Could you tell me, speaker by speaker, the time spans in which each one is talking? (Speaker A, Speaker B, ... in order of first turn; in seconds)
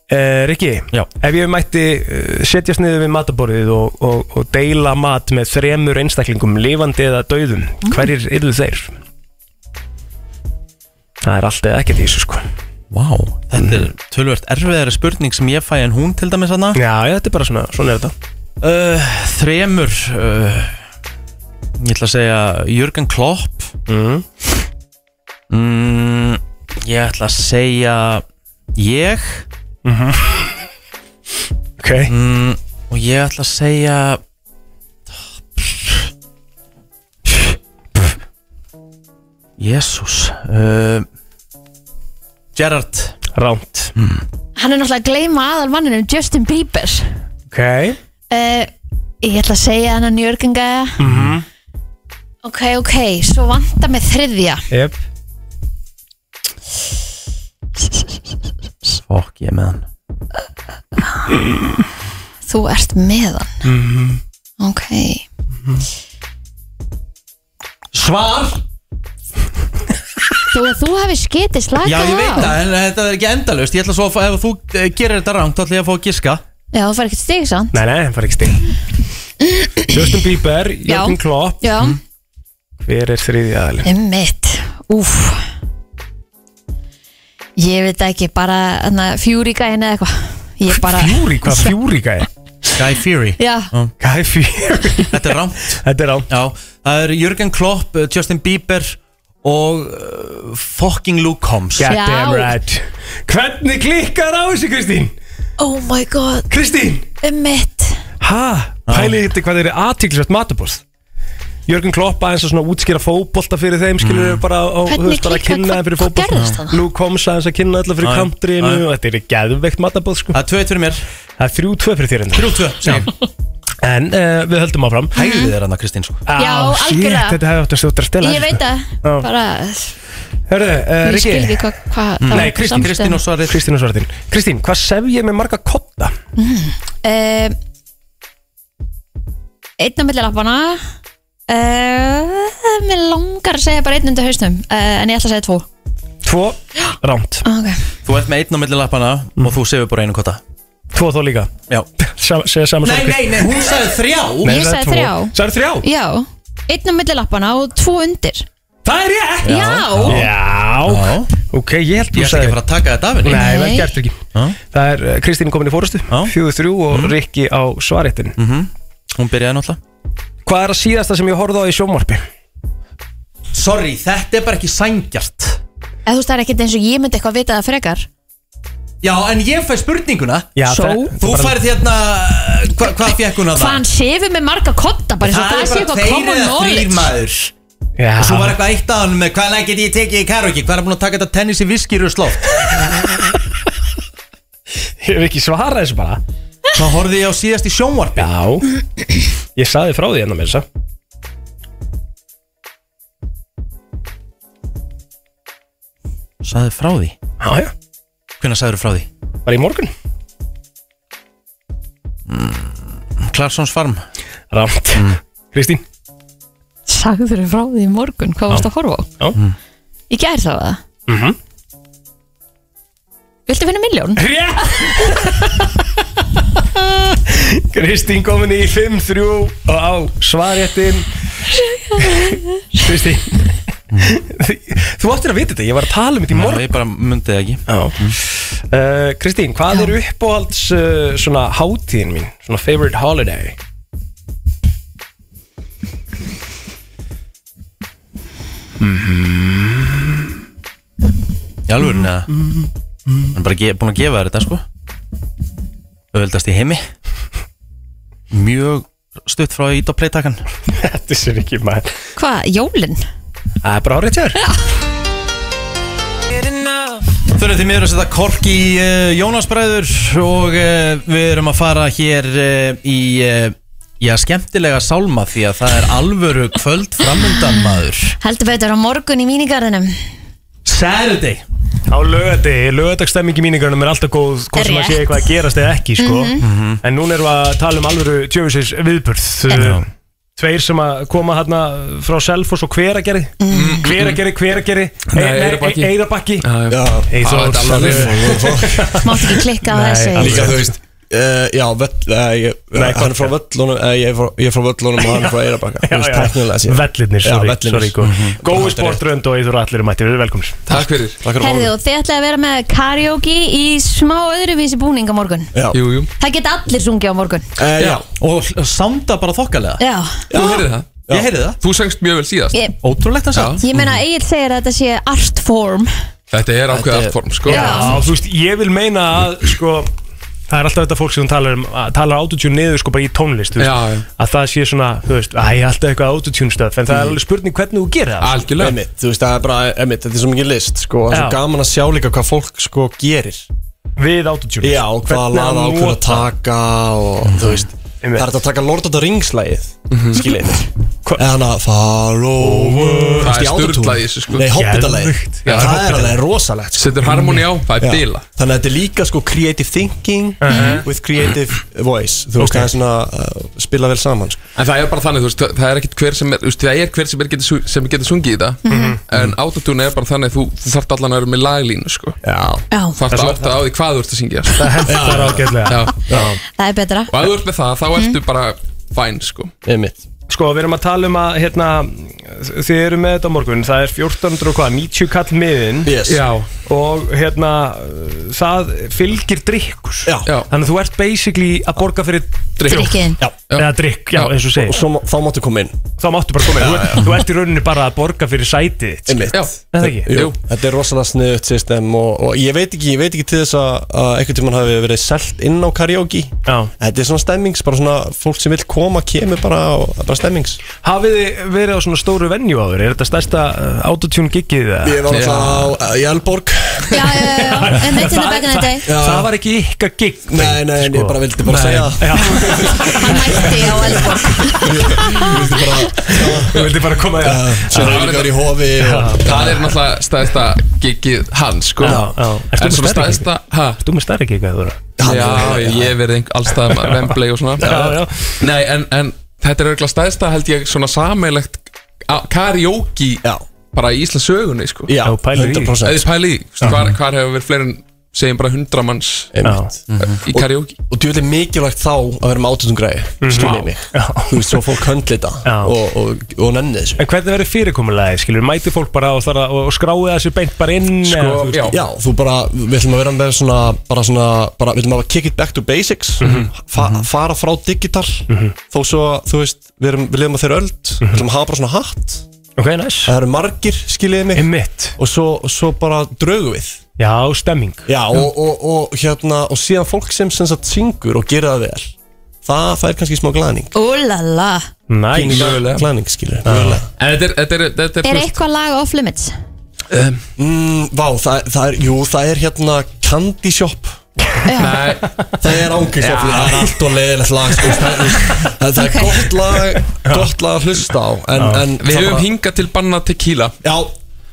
Speaker A: 0.1-8.9, 11.2-12.4, 13.6-13.8, 16.7-18.1, 23.9-24.2, 29.9-30.5, 31.8-32.1, 43.4-43.9, 47.5-48.0, 51.0-51.5, 54.7-55.0, 63.6-64.2, 77.7-78.6, 79.9-81.7, 82.8-83.9, 90.8-92.3, 94.0-96.3, 101.8-105.2, 106.5-107.1, 108.2-110.8, 111.7-120.4, 121.4-123.0, 123.8-125.2, 126.3-129.3, 130.5-136.1, 146.2-147.4, 150.9-153.6, 154.4-155.9, 158.8-162.6, 163.2-164.2, 164.7-168.4, 170.5-172.2, 180.6-181.6, 188.0-188.6, 195.0-196.2, 198.2-198.7, 199.6-200.7, 207.4-207.7, 209.5-209.9, 214.5-215.8, 221.1-221.4, 224.2-225.7, 226.6-231.1, 232.0-236.7, 237.7-243.6, 248.8-250.0, 252.4-253.3, 260.8-261.9, 263.6-264.4, 281.9-289.9, 290.4-296.5, 297.1-300.8, 302.7-303.3, 305.0-310.6, 327.5-329.9, 330.5-338.4, 341.1-341.4, 344.0-346.3, 348.0-348.4, 352.4-353.4, 354.4-356.2, 357.1-357.4, 360.4-360.9, 362.4-362.7, 368.7-369.0, 373.1-373.4, 374.6-376.4, 380.3-385.9, 386.7-394.8, 396.0-400.1, 406.5-406.7, 410.8-415.3, 417.0-425.3, 426.1-428.1, 428.8-429.4, 431.8-434.9, 436.6-438.4, 445.1-445.8, 449.4-449.7, 453.2-454.7, 455.4-455.7, 457.0-461.8, 466.2-466.5, 468.3-468.6, 472.6-473.1, 474.4-474.9, 477.0-477.9, 484.9-485.5, 486.4-486.8, 497.6-498.0, 500.0-500.3, 501.4-501.6
Speaker B: 12.9-16.8, 18.6-20.8, 21.8-23.7, 25.5-28.2, 28.8-29.5, 32.1-34.2, 39.6-41.1, 42.5-43.2, 44.0-44.2, 51.0-51.4, 59.0-59.9, 67.9-68.6, 71.8-76.4, 92.8-93.9, 95.1-101.9, 108.9-109.2, 114.0-114.4, 118.0-118.8, 120.3-121.0, 122.3-123.1, 125.2-126.3, 132.2-133.6, 148.1-150.4, 152.8-154.6, 159.4-160.3, 160.9-161.3, 162.1-163.5, 166.9-167.2, 168.4-169.8, 173.5-175.6, 179.0-180.5, 181.2-183.8, 185.2-187.5, 188.2-192.7, 196.7-198.3, 206.4-207.2, 208.4-209.1, 212.3-214.1, 233.9-234.2, 236.3-238.2, 251.7-252.4, 253.3-254.7, 256.1-256.8, 258.3-260.5, 267.3-278.1, 280.6-281.4, 286.4-286.8, 289.5-289.9, 308.0-308.4, 318.1-319.8, 321.1-321.6, 322.8-323.6, 347.3-347.7, 449.9-450.2, 466.8-467.1
Speaker C: 44.6-47.1, 48.3-48.7, 49.2-51.0, 52.4-54.7, 61.0-61.2, 62.5-63.5, 64.6-65.2, 70.5-72.5, 76.7-77.8, 79.5-80.0, 80.9-82.0, 83.8-85.4, 87.6-91.7, 93.4-93.7, 101.9-102.5, 105.6-106.5, 107.2-108.0, 114.9-116.8, 125.2-125.5, 126.4-127.4, 128.2-129.9, 131.0-133.2, 136.4-137.6, 139.8-140.8, 141.5-145.7, 147.4-147.8, 154.4-158.5, 159.4-160.2, 163.3-163.9, 176.1-178.1, 180.7-181.1, 183.0-187.1, 216.9-219.1, 220.1-220.8, 223.5-224.2, 231.5-232.8, 262.2-263.1, 278.2-280.0, 284.6-285.3, 286.0-286.4, 293.4-293.9, 299.0-300.6, 311.4-315.5, 316.2-317.5, 319.8-320.3, 323.6-325.9, 327.5-328.0, 360.5-360.9, 368.6-369.0, 372.7-373.0, 376.6-377.1, 392.6-393.2, 416.9-418.9, 422.7-425.4, 483.7-484.7, 488.0-489.3, 494.4-494.8, 498.8-499.1
Speaker D: 293.5-294.2, 295.1-298.5, 310.7-311.2, 315.7-316.1, 320.3-321.0, 321.6-322.6, 323.3-323.6, 326.3-327.9, 333.6-334.1, 338.2-338.8, 349.9-350.3, 353.2-354.5, 355.5-355.7, 356.8-358.3, 364.6-372.2, 372.9-376.2, 377.1-379.5, 386.1-386.5, 392.6-392.9, 393.5-394.3, 399.3-400.4, 415.1-415.6, 427.7-428.4, 429.2-433.8, 435.0-437.8, 438.4-445.0, 445.8-449.3, 450.3-450.8, 453.4-453.6, 461.0-461.8, 485.3-485.9, 487.0-488.4, 489.9-490.2, 494.6-495.2, 495.9-496.8, 501.8-503.6
Speaker E: 296.7-299.1, 300.2-309.0, 311.2-311.7, 315.5-315.8, 317.6-318.1, 320.3-321.3, 326.8-327.0, 338.6-343.5, 344.6-350.6, 351.2-364.4, 372.2-372.6, 374.9-376.4, 379.6-380.0, 385.9-386.3, 394.6-395.9, 396.5-397.2, 399.1-410.6, 414.8-417.1, 418.9-419.3, 420.3-426.6, 427.2-429.7, 435.0-435.9, 437.6-438.0, 444.9-446.1, 449.3-449.8, 450.3-457.0, 461.7-472.2, 473.1-476.8, 477.9-481.9, 482.4-483.7, 485.1-486.9, 490.4-494.0, 495.4-502.3, 503.6-503.9